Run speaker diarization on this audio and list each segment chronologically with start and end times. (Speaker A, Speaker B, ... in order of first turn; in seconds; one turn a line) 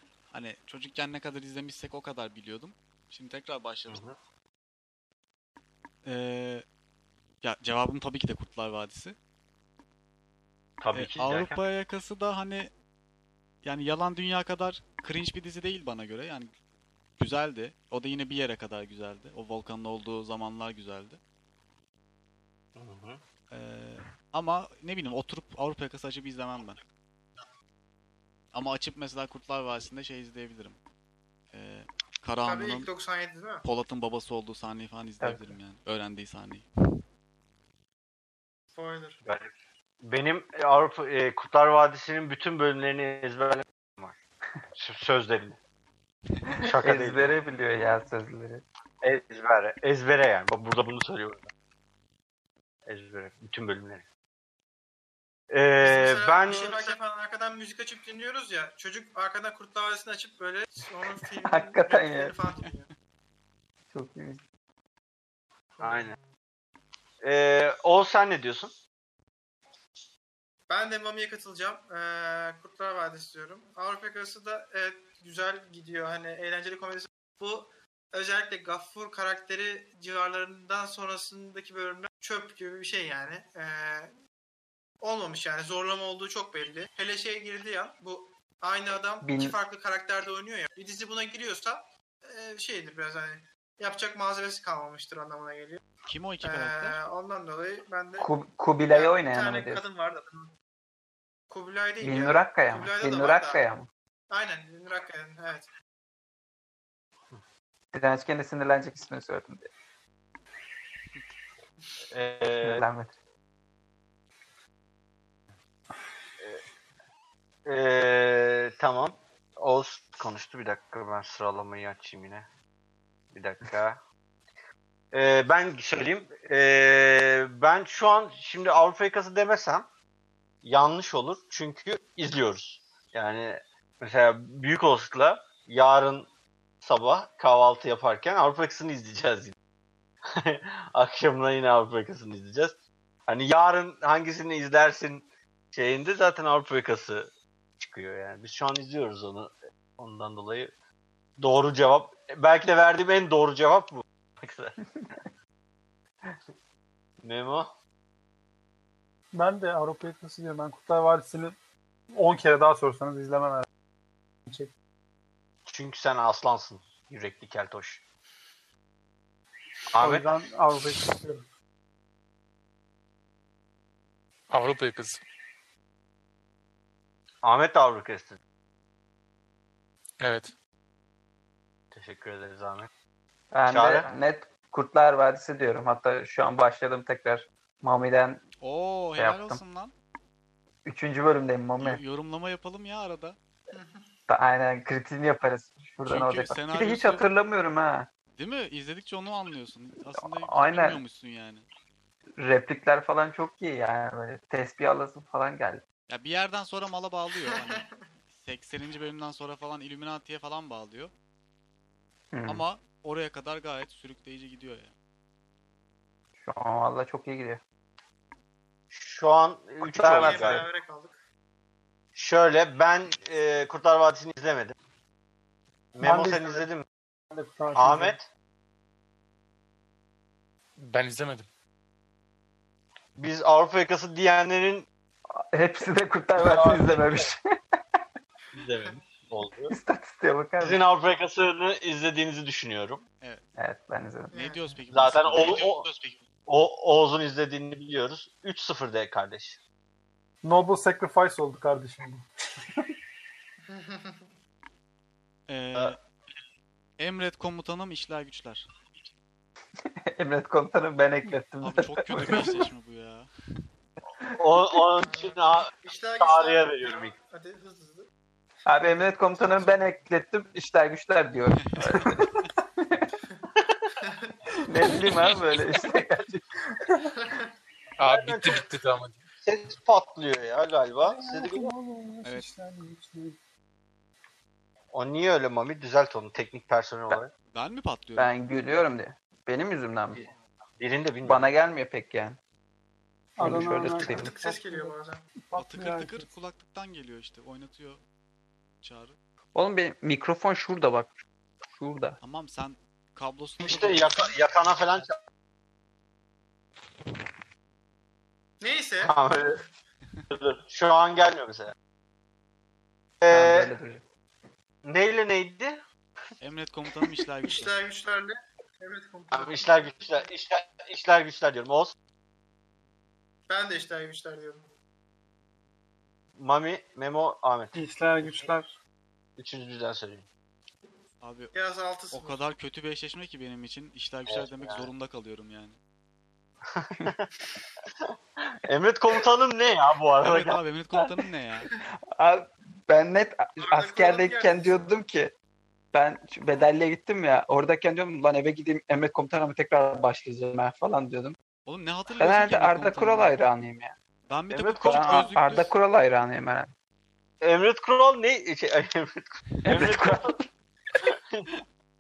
Speaker A: 0.3-4.0
Speaker B: 3.9-4.2
Speaker A: 6.0-6.7
Speaker A: 7.4-9.2
Speaker B: 10.8-11.6
Speaker A: 10.9-12.7
Speaker A: 13.6-16.5
Speaker A: 17.2-21.2
Speaker B: 22.8-23.2
Speaker A: 23.5-26.8
Speaker A: 28.5-30.8
Speaker A: 31.5-32.9
Speaker C: 32.5-33.6
Speaker A: 33.6-36.7
Speaker D: 35.2-35.5
Speaker C: 38.8-39.2
Speaker B: 39.2-39.5
Speaker B: 40.0-44.2
Speaker B: 44.8-45.6
Speaker B: 46.6-47.3
Speaker D: 46.8-48.6
Speaker B: 49.0-51.5
Speaker B: 52.9-54.0
Speaker B: 55.5-56.9
Speaker C: 55.8-62.9
Speaker D: 61.4-62.4
Speaker D: 63.9-64.4
Speaker C: 65.8-66.2
Speaker B: 65.8-66.2
Speaker B: 67.2-68.7
Speaker C: 70.7-84.1
Speaker C: 85.0-95.8
Speaker D: 89.2-89.6
Speaker A: 96.1-97.0
Speaker C: 96.4-98.3
Speaker D: 98.2-99.8
Speaker C: 98.9-100.5
Speaker C: 101.5-103.6
Speaker D: 102.0-103.9
Speaker C: 104.3-105.7
Speaker D: 107.9-109.7
Speaker B: 112.1-112.8
Speaker D: 112.6-113.1
Speaker B: 117.7-122.5
Speaker B: 123.3-124.0
Speaker B: 125.1-129.9
Speaker B: 130.6-136.3
Speaker B: 136.8-139.6
Speaker B: 140.3-150.7
Speaker B: 151.4-154.8
Speaker B: 157.2-157.7
Speaker E: 159.3-161.6
Speaker E: 162.1-163.7
Speaker E: 164.5-164.7
Speaker B: 165.7-168.0
Speaker B: 169.9-170.3
Speaker E: 170.0-171.4
Speaker F: 174.5-175.2
Speaker B: 177.4-178.4
Speaker F: 180.2-180.5
Speaker B: 181.9-182.9
Speaker D: 183.5-188.4
Speaker B: 183.7-184.1
Speaker A: 188.6-189.9
Speaker D: 189.2-189.6
Speaker D: 190.9-192.0
Speaker A: 191.8-193.4
Speaker C: 193.7-194.1
Speaker D: 194.3-198.1
Speaker A: 196.1-197.3
Speaker A: 198.4-201.7
Speaker D: 200.2-201.0
Speaker D: 202.4-205.8
Speaker A: 206.1-211.1
Speaker C: 207.5-207.9
Speaker D: 212.3-212.6
Speaker A: 212.5-214.9
Speaker D: 216.4-217.6
Speaker B: 218.9-220.7
Speaker D: 219.8-220.7
Speaker C: 220.1-221.2
Speaker B: 222.2-224.8
Speaker B: 225.9-226.8
Speaker E: 226.0-226.7
Speaker E: 227.3-228.2
Speaker B: 227.7-228.3
Speaker F: 230.8-231.5
Speaker B: 233.2-234.9
Speaker D: 235.3-237.4
Speaker B: 236.4-237.3
Speaker B: 238.5-239.7
Speaker D: 239.7-240.8
Speaker B: 240.6-243.0
Speaker D: 243.6-244.3
Speaker C: 244.3-244.6
Speaker A: 244.3-246.2
Speaker B: 244.9-245.8
Speaker B: 246.5-249.6
Speaker E: 250.4-252.3
Speaker C: 253.7-254.3
Speaker A: 255.5-256.0
Speaker A: 257.0-258.7
Speaker D: 260.1-262.6
Speaker A: 261.6-263.3
Speaker B: 264.4-267.1
Speaker C: 265.0-268.1
Speaker D: 268.7-273.1
Speaker C: 269.4-269.7
Speaker A: 271.7-272.0
Speaker C: 274.0-274.4
Speaker D: 274.6-276.8
Speaker C: 277.1-277.5
Speaker F: 278.0-279.2
Speaker B: 278.0-278.6
Speaker B: 279.4-281.7
Speaker E: 281.1-283.4
Speaker B: 284.9-287.3
Speaker A: 287.5-288.3
Speaker D: 288.2-290.2
Speaker B: 290.8-291.5
Speaker D: 291.2-292.4
Speaker E: 293.4-296.3
Speaker D: 293.4-294.3
Speaker C: 294.0-295.3
Speaker A: 295.6-298.0
Speaker A: 298.8-299.2
Speaker D: 299.6-301.1
Speaker D: 301.7-302.2
Speaker A: 302.2-304.3
Speaker B: 303.6-305.2
Speaker C: 308.6-309.2
Speaker B: 309.0-309.6
Speaker B: 310.3-311.7
Speaker B: 313.2-313.7
Speaker D: 313.3-314.0
Speaker B: 314.8-315.8
Speaker A: 316.4-317.7
Speaker C: 317.4-320.0
Speaker B: 319.3-321.9
Speaker C: 323.5-324.7
Speaker B: 326.4-327.7
Speaker E: 327.7-328.7
Speaker B: 329.4-330.3
Speaker A: 331.2-331.6
Speaker C: 331.5-332.5
Speaker A: 332.1-335.8
Speaker B: 334.3-334.9
Speaker B: 336.7-337.3
Speaker B: 338.6-340.6
Speaker A: 340.2-341.7
Speaker D: 342.2-345.3
Speaker C: 343.6-345.0
Speaker D: 345.9-351.4
Speaker A: 351.7-353.4
Speaker D: 352.2-353.9
Speaker A: 354.3-355.7
Speaker B: 354.5-355.3
Speaker D: 354.8-356.7
Speaker B: 357.4-360.4
Speaker D: 359.6-360.4
Speaker B: 361.0-361.5